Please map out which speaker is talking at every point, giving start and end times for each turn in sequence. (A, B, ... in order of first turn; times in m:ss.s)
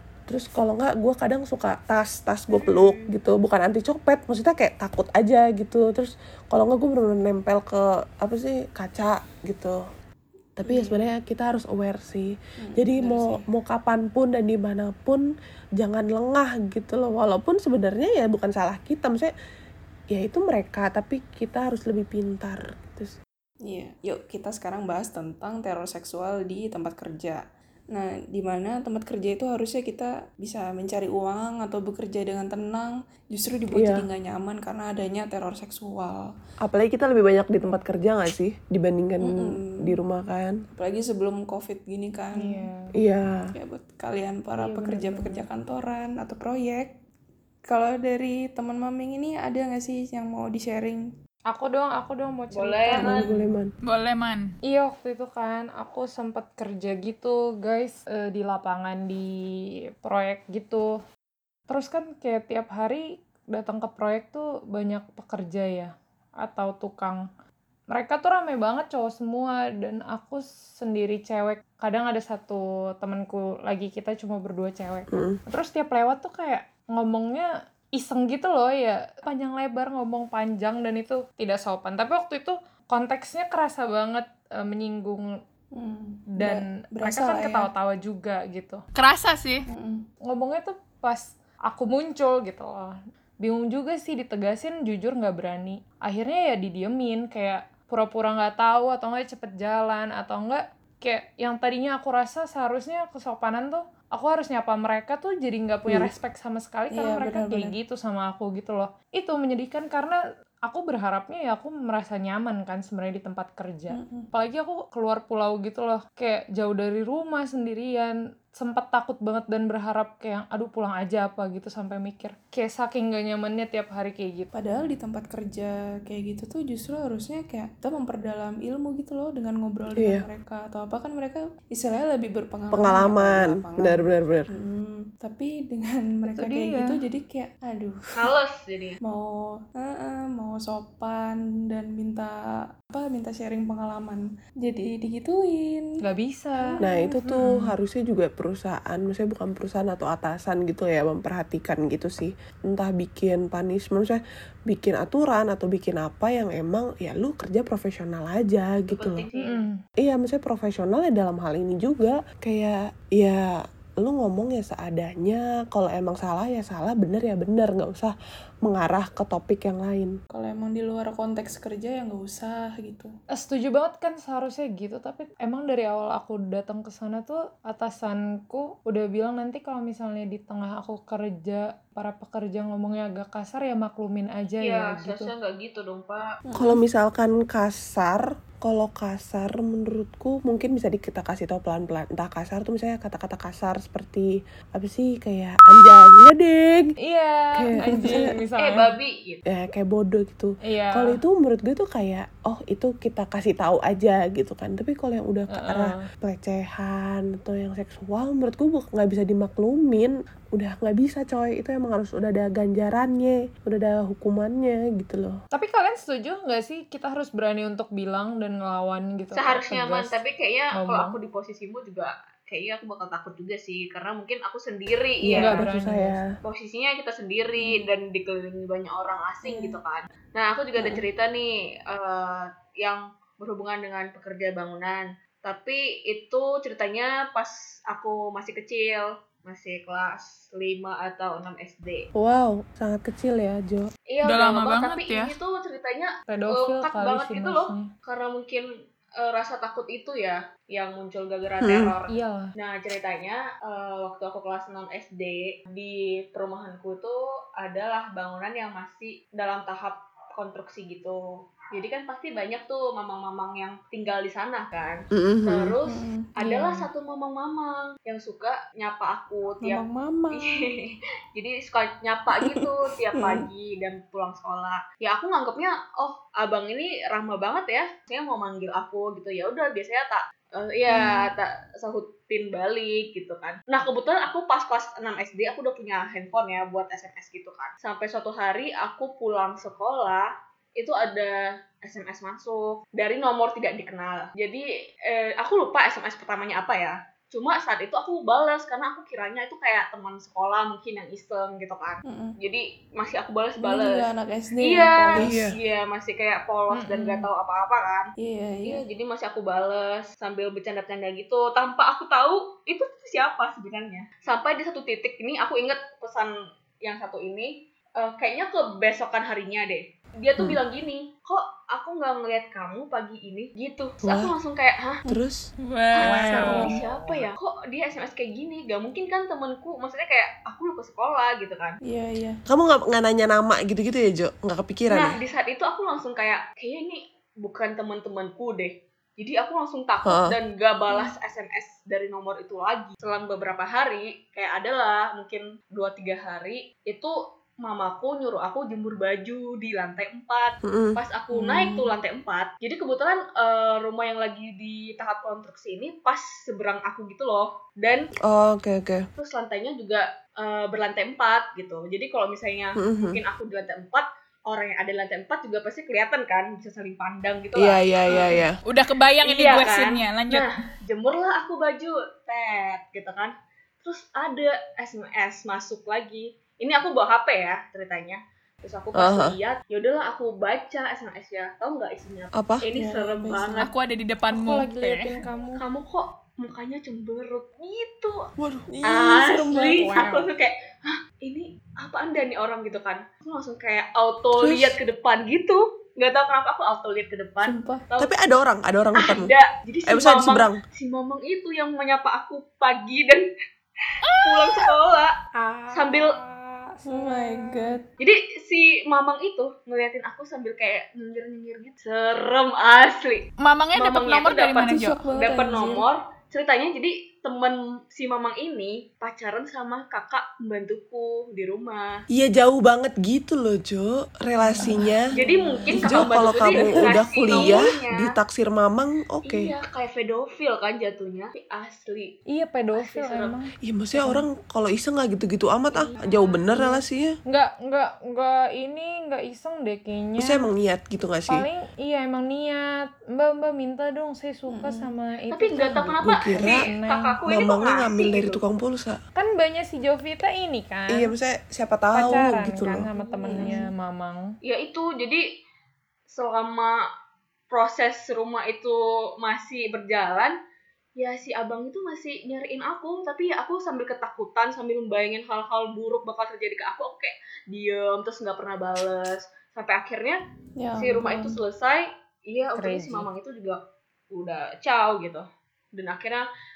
0:00.3-0:09.8 A
0:02.5-0:03.1 B
0:10.6-0:15.2 A
0:10.6-0:11.1 C
0:12.6-0:13.5 C
0:15.8-0:19.3 A
0:20.1-0:23.2 A
0:23.7-0:27.4 C
0:27.9-0:36.3 C
0:33.7-0:34.0 A
0:36.6-0:40.6 A
0:39.2-0:40.0 C
0:40.7-0:42.7 C
0:42.4-0:42.9 D
0:43.0-0:43.5 A
0:43.5-0:46.9 C
0:44.6-0:45.4 D
0:47.7-0:51.1 C
0:51.5-0:53.3 D
0:52.6-0:53.3 B
0:52.9-0:53.7 A
0:53.8-0:54.5 E
0:54.6-0:59.3 D
1:00.0-1:00.9 D
1:01.7-1:07.2 D
1:07.9-1:25.3 D
1:15.1-1:15.4 A
1:25.7-1:27.7 C
1:26.4-1:28.8 D
1:28.9-1:29.6 E
1:29.7-1:30.0 C
1:30.3-2:04.5 D
1:46.9-1:47.8 C
1:53.9-1:54.3 C
2:04.5-2:18.3 C
2:09.9-2:10.2 A
2:12.7-2:14.5 A
2:16.3-2:17.0 D
2:18.2-2:19.0 B
2:19.0-2:22.3 C
2:22.9-2:25.8 C
2:26.0-2:27.5 D
2:26.6-2:26.9 C
2:26.8-2:39.2 A
2:38.9-2:39.6 B
2:39.3-2:39.8 D
2:40.0-2:43.4 A
2:44.0-2:48.1 A
2:48.6-2:50.1 A
2:50.3-2:53.1 C
2:53.4-3:05.3 D
3:04.6-3:06.3 B
3:06.4-3:06.8 C
3:06.6-3:16.9 A
3:17.0-3:18.9 D
3:17.6-3:18.3 A
3:17.8-3:18.2 C
3:18.6-3:19.4 B
3:19.5-3:35.4 A
3:20.7-3:21.2 D
3:25.5-3:26.0 D
3:35.5-3:40.1 D
3:39.4-3:45.6 B
3:40.7-3:41.2 D
3:45.2-3:46.3 A
3:45.4-3:46.2 D
3:46.4-4:02.0 B
3:49.4-3:49.8 C
3:50.8-3:51.0 A
4:02.2-4:03.9 A
4:04.1-4:08.6 B
4:04.2-4:05.3 E
4:06.3-4:07.9 D
4:09.2-4:21.2 B
4:11.6-4:11.9 A
4:12.1-4:12.5 D
4:21.7-4:29.8 B
4:25.1-4:25.8 A
4:25.8-4:26.3 C
4:26.4-4:26.9 D
4:29.6-4:30.6 C
4:30.4-5:04.1 B
4:32.3-4:33.5 C
4:40.9-4:41.3 C
5:02.0-5:02.4 C
5:03.6-5:05.3 C
5:04.6-5:08.1 B
5:05.2-5:05.5 A
5:06.7-5:07.3 D
5:08.2-5:08.8 C
5:08.6-5:16.3 B
5:16.8-5:25.0 B
5:24.0-5:24.3 A
5:25.1-5:25.4 A
5:25.6-5:26.7 E
5:26.0-5:31.8 B
5:26.3-5:26.8 C
5:26.4-5:26.7 D
5:31.8-5:32.4 C
5:32.5-5:35.2 A
5:34.9-5:58.0 B
5:50.6-5:51.0 A
5:51.3-5:51.9 C
5:58.3-5:59.1 A
5:59.2-6:08.4 B
6:02.8-6:03.2 A
6:07.6-6:08.6 A
6:08.6-6:10.6 E
6:09.2-6:13.3 B
6:13.8-6:23.7 B
6:19.0-6:19.3 A
6:22.4-6:22.6 A
6:22.7-6:23.6 C
6:23.6-6:25.1 E
6:24.3-6:25.6 D
6:25.6-6:28.2 B
6:28.4-6:28.7 A
6:28.7-6:29.9 C
6:28.9-6:38.1 B
6:29.5-6:30.3 D
6:34.4-6:34.7 A
6:37.4-6:37.9 C
6:38.0-6:39.3 A
6:39.0-6:43.2 B
6:39.9-6:40.6 A
6:43.9-6:45.1 B
6:44.0-6:44.7 E
6:45.3-6:47.7 D
6:45.7-6:46.1 B
6:46.9-6:47.9 C
6:48.0-7:01.9 B
6:53.4-6:55.0 E
6:54.6-6:55.9 C
7:02.1-7:05.0 A
7:04.5-7:05.7 D
7:04.6-7:04.8 C
7:05.1-7:08.1 B
7:05.7-7:07.0 C
7:05.7-7:09.5 A
7:09.3-7:12.1 B
7:12.3-7:14.2 D
7:12.8-7:13.4 B
7:13.6-7:17.1 A
7:15.7-7:16.4 B
7:17.3-7:20.4 D
7:20.2-7:21.4 A
7:21.3-7:22.6 D
7:23.2-7:27.1 D
7:24.5-7:24.9 C
7:25.3-7:28.4 B
7:26.0-7:26.7 A
7:27.3-7:29.0 A
7:29.2-7:31.1 D
7:30.9-7:32.8 A
7:31.9-7:34.2 D
7:33.2-7:33.6 C
7:34.4-7:35.2 B
7:36.1-7:36.7 B
7:37.5-7:40.3 B
7:41.0-7:50.2 B
7:50.6-7:51.4 C
7:50.8-7:53.6 B
7:52.5-7:53.1 D
7:54.1-7:56.2 B